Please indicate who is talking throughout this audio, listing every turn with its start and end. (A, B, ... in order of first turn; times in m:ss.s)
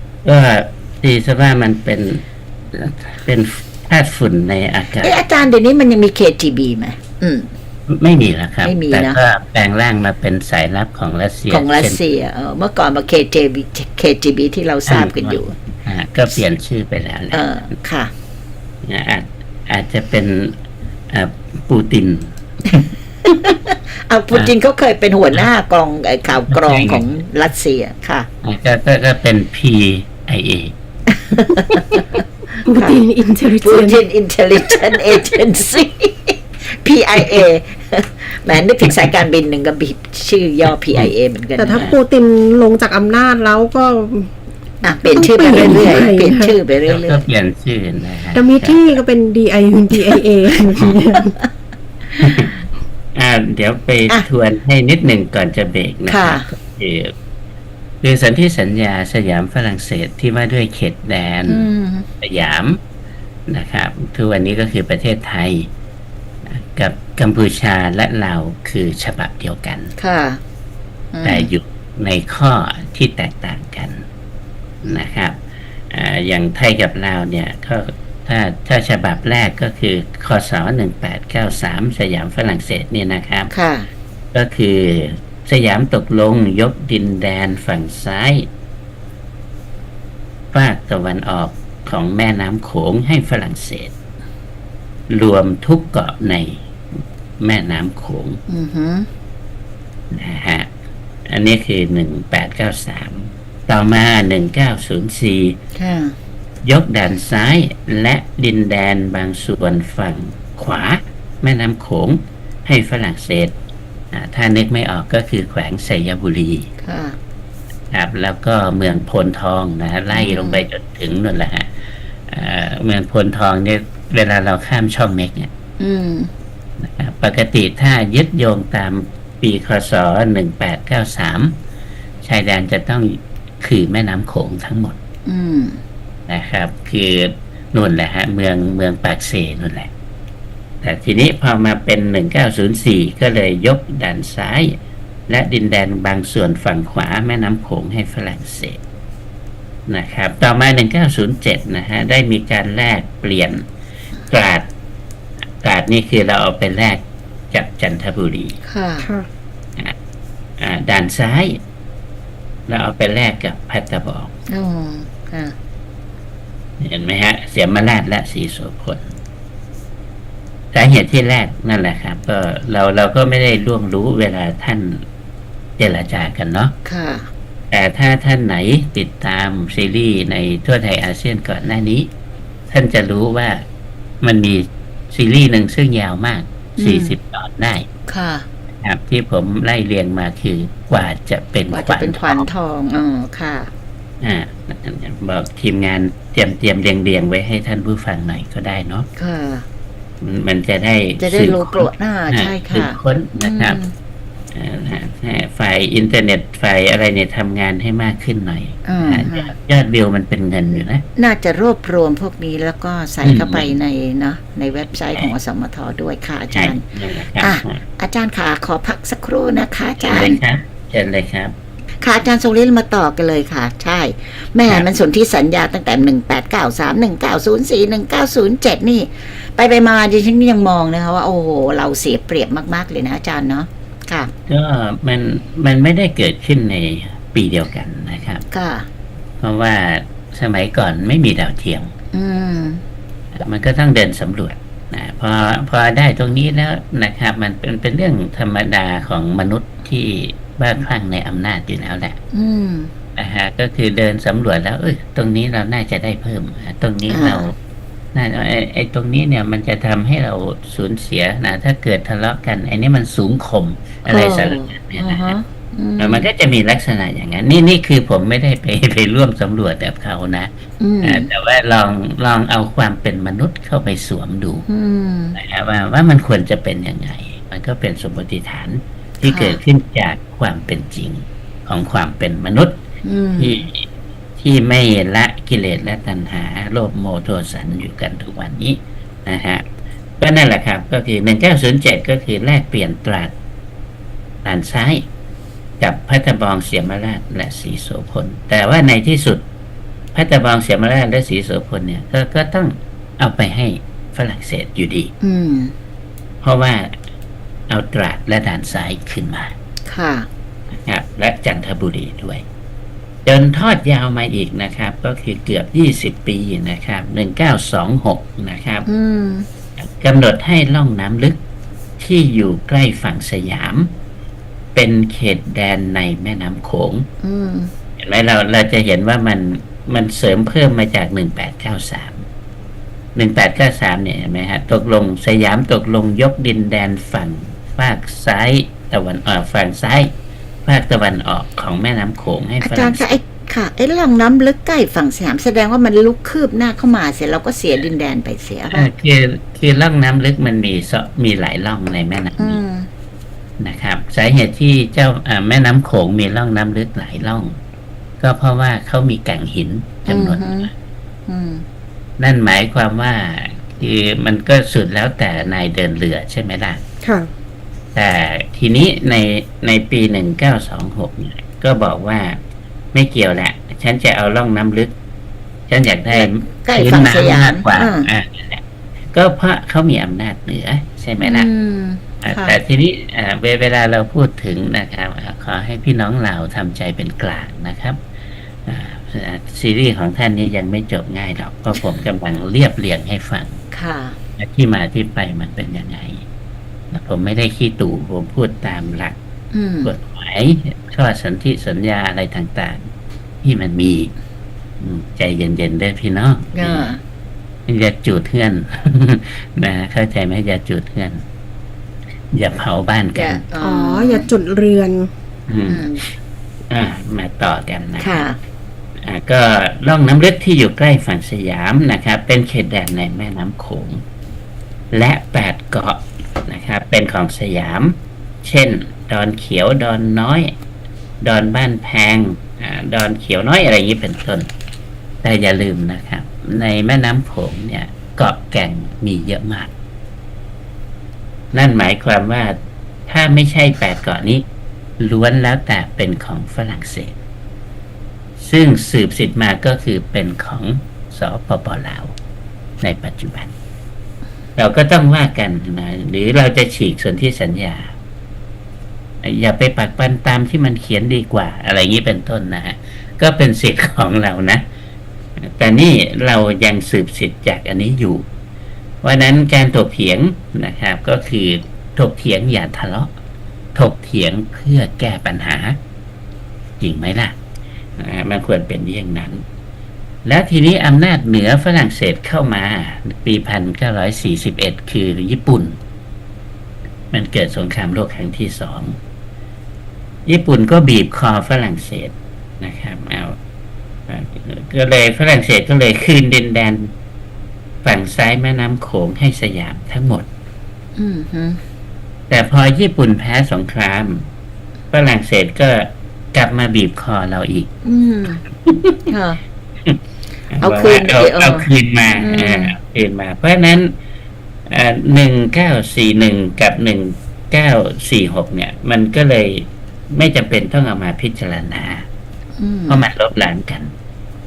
0:00.2-0:05.2 A
0:05.0-0:07.5 B
0:07.9-0:12.0 A
0:08.6-0:09.2 B
0:11.5-0:15.6 B
0:14.8-0:17.4 A
0:17.3-0:18.1 B
0:18.8-0:20.6 A
0:21.1-0:22.4 A
0:23.3-0:28.3 B
0:26.5-0:27.1 A
0:28.4-0:30.7 A
0:31.1-0:33.0 B
0:32.6-0:34.0 C
0:33.6-0:41.9 B
0:41.6-0:44.3 C
0:44.8-0:47.2 B
0:45.0-0:46.5 C
0:46.8-0:48.9 A
0:48.3-0:51.4 C
0:52.2-0:52.5 A
0:53.1-0:57.1 A
0:56.1-0:56.5 B
0:58.0-1:01.7 A
1:01.5-1:02.1 B
1:02.2-1:02.8 A
1:03.5-1:05.7 A
1:06.4-1:09.9 A
1:10.0-1:10.4 B
1:11.1-1:11.5 B
1:11.2-1:14.0 A
1:14.8-1:15.4 A
1:15.9-1:23.5 A
1:23.5-1:23.9 B
1:24.3-1:28.5 A
1:30.5-1:33.9 A
1:35.1-1:38.4 A
1:38.5-1:39.1 B
1:40.1-1:40.7 A
1:41.3-1:45.6 A
1:45.7-1:46.2 B
1:46.6-1:53.5 A
1:54.1-1:56.7 A
1:56.8-1:57.2 B
1:57.9-2:01.7 A
2:00.1-2:00.6 B
2:02.3-2:05.5 A
2:05.8-2:06.3 B
2:06.8-2:11.6 A
2:12.2-2:15.0 A
2:15.2-2:15.8 B
2:16.3-2:19.9 A
2:20.8-2:24.8 A
2:25.3-2:28.8 A
2:29.9-2:33.6 A
2:34.3-2:34.7 A
2:35.6-2:38.6 A
2:38.6-2:39.1 B
2:39.0-2:39.3 C
2:40.6-2:41.6 A
2:42.7-2:44.3 A
2:44.5-2:45.5 B
2:46.8-2:49.1 A
2:50.7-2:55.0 A
2:55.8-2:56.8 A
2:56.8-2:57.3 B
2:57.7-3:02.1 A
3:02.7-3:03.6 A
3:04.2-3:07.9 A
3:06.8-3:07.2 B
3:08.1-3:08.5 B
3:08.8-3:12.5 A
3:11.7-3:13.7 B
3:14.2-3:19.1 A
3:19.2-3:19.6 B
3:20.2-3:23.8 A
3:21.2-3:23.9 B
3:24.5-3:31.0 A
3:28.8-3:29.5 B
3:31.2-3:36.8 B
3:33.2-3:33.7 A
3:36.5-3:37.8 A
3:37.4-3:40.4 B
3:40.0-3:41.5 A
3:42.0-3:54.3 B
3:54.5-3:58.4 A
3:58.5-3:58.9 B
3:59.4-4:01.9 A
4:02.1-4:02.8 B
4:03.3-4:12.2 A
4:12.3-4:12.9 B
4:13.2-4:17.5 A
4:17.1-4:17.4 B
4:18.1-4:25.4 A
4:24.0-4:26.3 B
4:26.0-4:30.5 A
4:30.8-4:31.3 B
4:31.0-4:34.6 A
4:34.7-4:35.4 B
4:35.4-4:42.8 A
4:39.2-4:39.6 B
4:43.0-4:43.7 B
4:43.4-4:43.8 A
4:44.4-4:49.6 A
4:50.2-4:53.3 A
4:54.4-4:55.0 A
4:55.8-4:59.4 A
5:00.1-5:05.1 A
5:05.2-5:05.7 B
5:06.4-5:07.0 A
5:07.7-5:09.5 A
5:09.9-5:10.3 B
5:10.7-5:12.4 A
5:13.2-5:18.9 A
5:18.9-5:19.5 B
5:19.8-5:21.4 A
5:22.0-5:23.9 A
5:24.7-5:27.1 A
5:27.2-5:27.7 B
5:28.0-5:32.2 A
5:33.1-5:43.2 A
5:42.6-5:48.9 B
5:48.7-5:52.6 A
5:52.4-5:52.9 B
5:53.6-5:57.6 A
5:58.2-6:00.7 A
6:00.1-6:00.7 B
6:01.3-6:01.6 B
6:02.2-6:06.8 A
6:07.0-6:07.3 C
6:07.9-6:12.4 A
6:12.9-6:14.9 A
6:15.7-6:21.5 A
6:16.1-6:18.1 B
6:21.2-6:22.6 B
6:22.2-6:28.0 A
6:28.6-6:33.6 A
6:33.7-6:34.2 B
6:34.4-6:36.2 A
6:36.9-6:39.2 A
6:39.5-6:39.9 B
6:39.8-6:42.9 A
6:43.4-6:44.1 A
6:44.8-6:46.9 A
6:46.5-6:47.0 B
6:47.7-6:51.2 A
6:52.3-6:53.4 A
6:53.1-6:54.3 B
6:53.6-6:55.1 C
6:55.5-6:55.8 A
6:55.7-6:56.0 B
6:56.7-6:58.3 A
6:58.0-6:58.4 B
6:59.0-7:04.0 A
7:04.9-7:10.5 A
7:11.2-7:14.5 A
7:15.2-7:19.7 A
7:21.5-7:22.6 A
7:23.1-7:24.4 A
7:25.0-7:27.1 A
7:28.4-7:32.1 A
7:32.8-7:33.5 A
7:34.6-7:37.9 A
7:39.2-7:44.6 A
7:45.4-7:48.2 A
7:49.0-7:53.1 A
7:53.7-7:55.8 A
7:56.8-7:57.4 A
7:58.0-7:59.4 A
8:00.2-8:05.8 A
8:07.1-8:09.0 A
8:10.2-8:13.4 A
8:14.1-8:16.9 A
8:17.8-8:20.3 A
8:21.0-8:21.6 B
8:22.3-8:24.3 A
8:24.9-8:27.7 A
8:27.8-8:28.4 B
8:28.6-8:29.0 A
8:29.1-8:29.4 B
8:30.5-8:33.9 A
8:30.6-8:32.8 B
8:34.7-8:42.1 A
8:42.6-8:43.1 B
8:42.9-8:43.9 A